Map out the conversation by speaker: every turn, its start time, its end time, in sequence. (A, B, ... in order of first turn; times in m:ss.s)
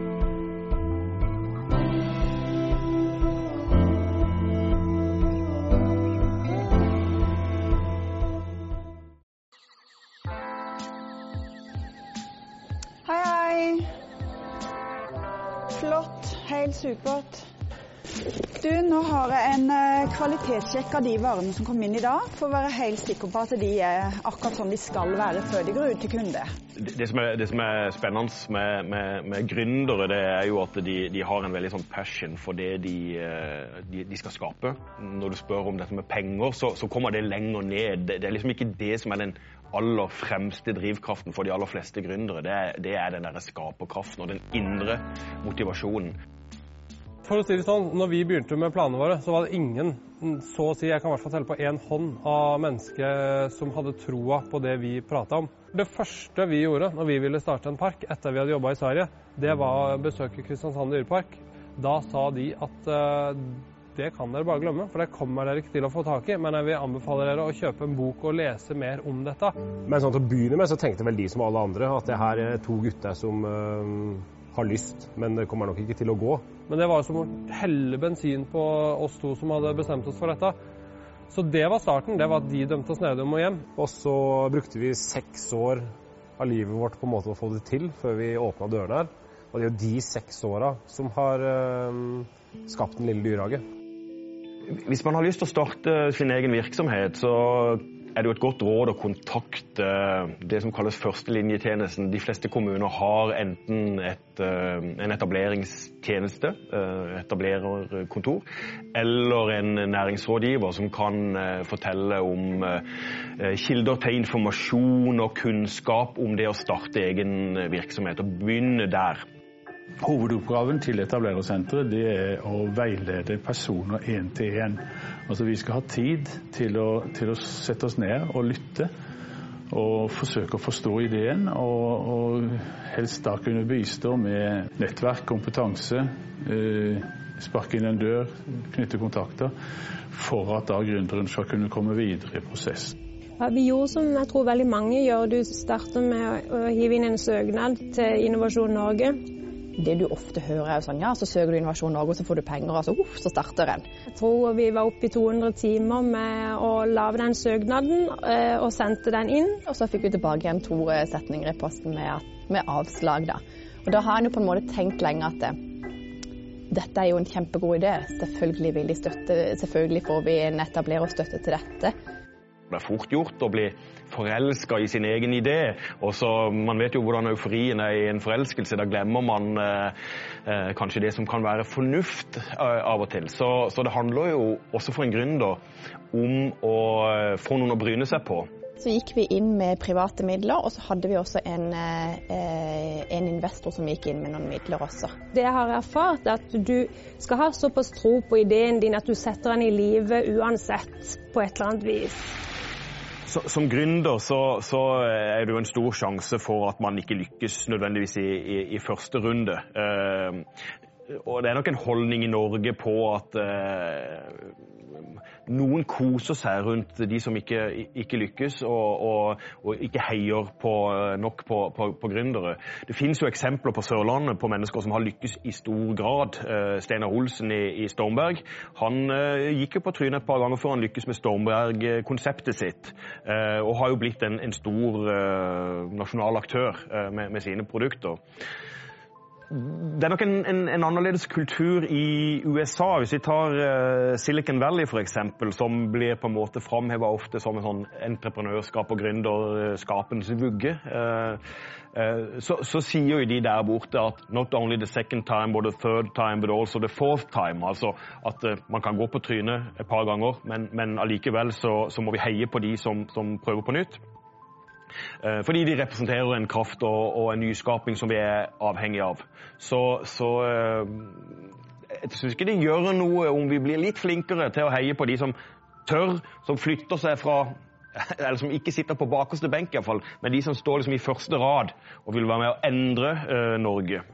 0:13.0-0:13.9 A
0:15.7-0:17.5 A
0:18.6-0:26.5 A
0:26.8-0:46.1 B
0:47.2-1:09.6 C
1:09.9-1:16.5 D
1:16.7-1:20.6 C
1:21.3-1:23.7 C
1:23.8-1:25.9 D
1:26.4-1:33.6 D
1:34.8-1:52.8 B
1:53.4-1:59.2 B
2:00.0-2:08.9 E
2:09.7-2:19.5 E
2:20.1-2:22.9 E
2:23.4-2:29.2 F
2:29.8-2:33.8 G
2:34.1-2:39.6 F
2:39.7-2:45.6 G
2:46.7-2:51.9 G
2:52.7-2:59.9 B
3:00.5-3:05.6 B
3:06.1-3:08.5 B
3:08.8-3:15.1 G
3:15.3-3:22.3 F
3:23.3-3:30.4 B
3:31.1-3:34.5 B
3:35.5-3:58.2 B
3:59.5-4:11.4 B
4:11.9-4:24.0 B
4:25.2-4:31.3 B
4:32.0-4:35.4 B
4:35.9-4:44.0 B